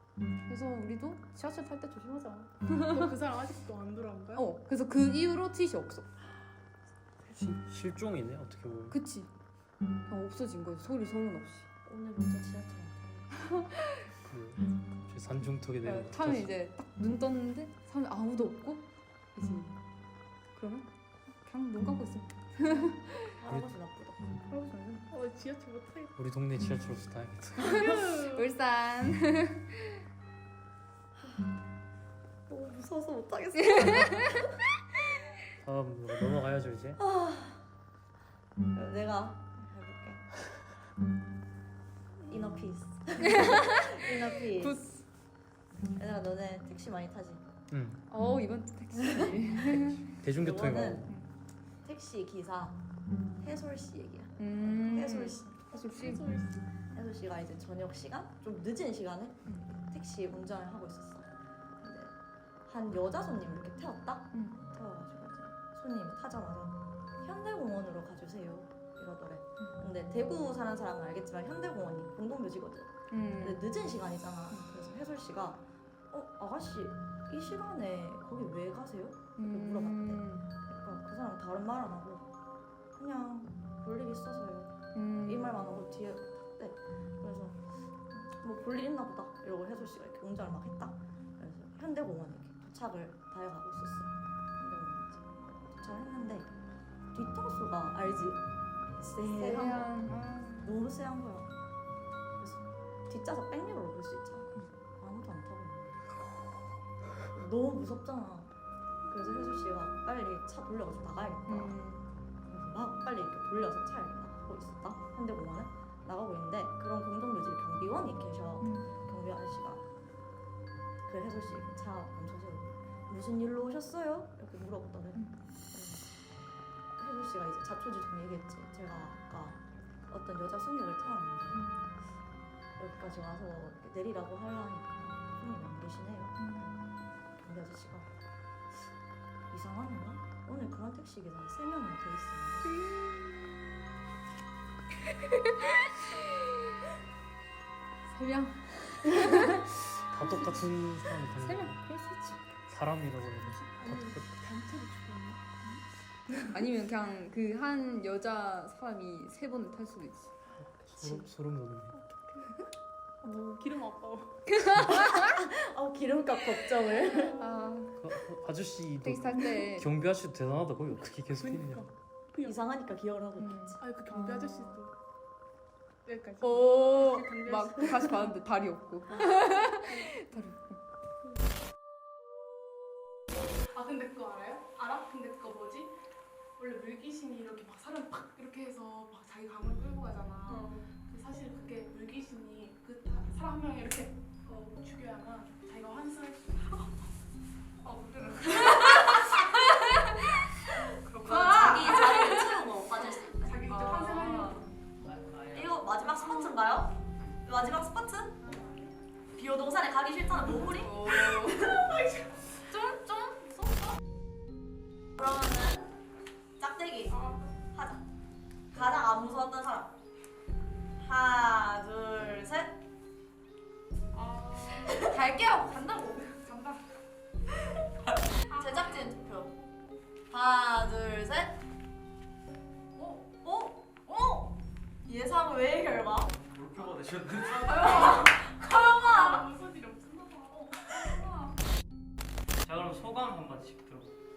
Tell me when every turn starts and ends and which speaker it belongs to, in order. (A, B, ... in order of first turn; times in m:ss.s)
0:00.5-0:03.0 A
0:02.8-0:04.4 B
0:04.3-0:06.1 A
0:07.3-0:09.0 C
0:08.9-0:09.3 A
0:10.1-0:11.7 A
0:11.8-0:13.5 D
0:14.2-0:16.5 C
0:15.8-0:19.8 A
0:20.5-0:20.9 A
0:21.4-0:23.4 A
0:23.4-0:24.3 D
0:24.5-0:25.1 A
0:25.1-0:26.1 B
0:26.2-0:27.8 C
0:27.6-0:30.0 A
0:27.7-0:28.4 B
0:31.2-0:31.5 D
0:32.5-0:34.4 D
0:33.6-0:34.3 A
0:35.6-0:37.0 C
0:37.0-0:37.6 D
0:38.7-0:40.3 D
0:42.3-0:44.8 D
0:43.2-0:44.0 A
0:44.5-0:45.0 A
0:45.9-0:47.4 D
0:47.7-0:48.0 C
0:48.1-0:50.0 A
0:49.8-0:51.1 C
0:50.4-0:51.1 D
0:51.0-0:51.3 A
0:51.8-0:52.8 D
0:53.4-0:55.7 D
0:54.4-0:56.3 A
0:55.7-0:56.7 B
0:56.9-1:01.3 D
1:01.8-1:02.1 D
1:02.7-1:22.2 D
1:04.3-1:04.6 A
1:13.1-1:13.6 A
1:14.5-1:14.8 A
1:19.4-1:20.5 A
1:23.0-1:36.5 D
1:24.9-1:25.6 A
1:37.1-1:38.4 D
1:39.0-1:40.1 D
1:39.3-1:40.8 A
1:40.6-1:41.5 D
1:42.4-1:46.1 D
1:47.3-1:48.5 D
1:49.1-1:51.8 D
1:51.5-1:52.1 A
1:52.4-1:59.8 D
1:58.6-1:58.9 A
2:01.0-2:06.1 D
2:07.0-2:11.6 D
2:11.5-2:11.8 A
2:12.8-2:16.7 D
2:16.4-2:17.0 A
2:17.4-2:18.1 D
2:19.5-2:22.7 D
2:22.6-2:23.3 A
2:25.1-2:26.3 A
2:28.0-2:30.5 A
2:29.9-2:31.8 C
2:31.4-2:32.4 A
2:32.7-2:34.3 C
2:33.4-2:35.4 B
2:36.4-2:40.3 A
2:40.6-2:42.0 C
2:42.3-2:42.6 B
2:43.2-2:44.3 B
2:44.5-2:45.2 A
2:44.9-2:47.4 D
2:46.9-2:47.4 B
2:47.2-2:48.0 A
2:48.0-2:51.9 C
2:49.0-2:49.9 A
2:51.3-2:52.6 B
2:52.4-2:53.8 D
2:53.4-2:54.8 A
2:53.8-2:54.9 B
2:56.0-2:58.3 B
2:56.4-3:00.8 A
2:59.2-3:00.4 B
3:03.6-3:05.9 B
3:06.6-3:16.8 B
3:10.5-3:10.8 A
3:17.8-3:19.9 B
3:18.6-3:20.2 A
3:21.0-3:22.5 B
3:21.2-3:22.6 A
3:21.2-3:23.6 D
3:23.3-3:24.7 B
3:23.7-3:24.7 A
3:25.0-3:25.9 C
3:25.5-3:28.4 D
3:28.4-3:28.9 B
3:29.3-3:31.0 D
3:30.7-3:31.7 A
3:31.0-3:32.5 B
3:32.7-3:33.9 A
3:35.2-3:35.9 D
3:36.6-3:37.2 D
3:37.1-3:37.5 B
3:37.7-3:38.0 D
3:38.7-3:39.9 D
3:41.0-3:42.8 D
3:44.1-3:45.0 B
3:44.8-3:46.7 A
3:48.4-3:49.6 D
3:48.5-3:49.1 B
3:50.3-3:51.6 D
3:53.0-3:53.2 B
3:53.4-3:54.5 D
3:55.0-3:56.3 D
3:56.3-3:58.2 C
3:57.5-4:01.5 B
3:57.8-3:59.4 D
4:02.6-4:04.1 C